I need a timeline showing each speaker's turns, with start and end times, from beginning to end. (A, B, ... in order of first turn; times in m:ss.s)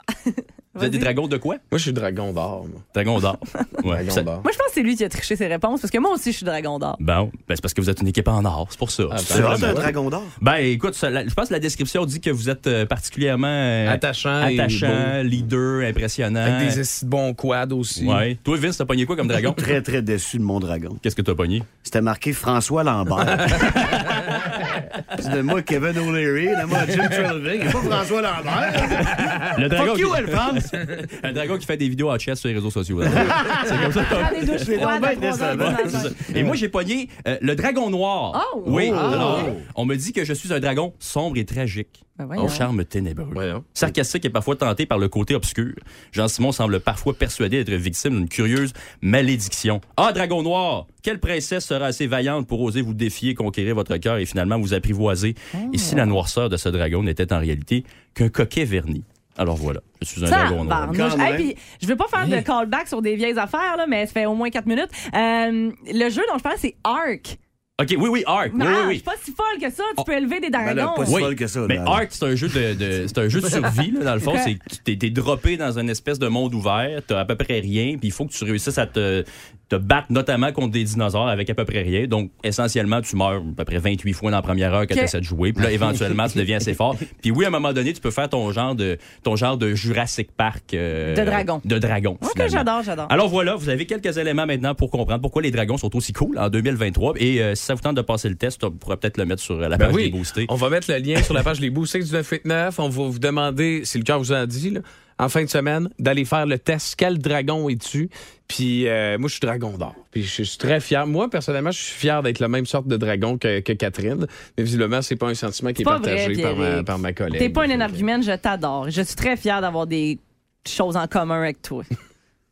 0:00.2-0:01.1 A
0:00.8-0:01.6 B
0:01.7-0:02.8 C
0:02.9-0:04.3 B
0:03.8-0:04.4 C
0:04.4-0:07.0 A
0:07.0-0:09.8 B
0:09.1-0:09.9 C
0:09.3-0:10.3 D
0:10.4-0:16.8 B
0:13.8-0:15.2 C
0:16.4-0:18.2 C
0:18.0-0:19.6 B
0:19.4-0:21.0 D
0:21.0-0:21.7 B
0:21.8-0:24.0 D
0:23.5-0:24.8 B
0:25.1-0:30.8 D
0:28.8-1:01.0 B
0:33.1-0:36.6 D
0:34.0-0:36.2 A
0:38.3-0:39.0 A
0:38.7-0:39.6 D
0:38.8-0:39.5 C
0:42.2-0:42.7 A
0:43.3-0:43.6 C
0:55.5-0:56.2 A
1:00.2-1:07.4 A
1:00.9-1:01.5 D
1:07.8-1:09.0 B
1:08.5-1:11.2 A
1:10.6-1:12.1 D
1:11.1-1:40.5 B
1:31.1-1:31.6 A
1:32.2-1:33.1 A
1:39.8-1:58.0 C
1:55.8-2:01.9 A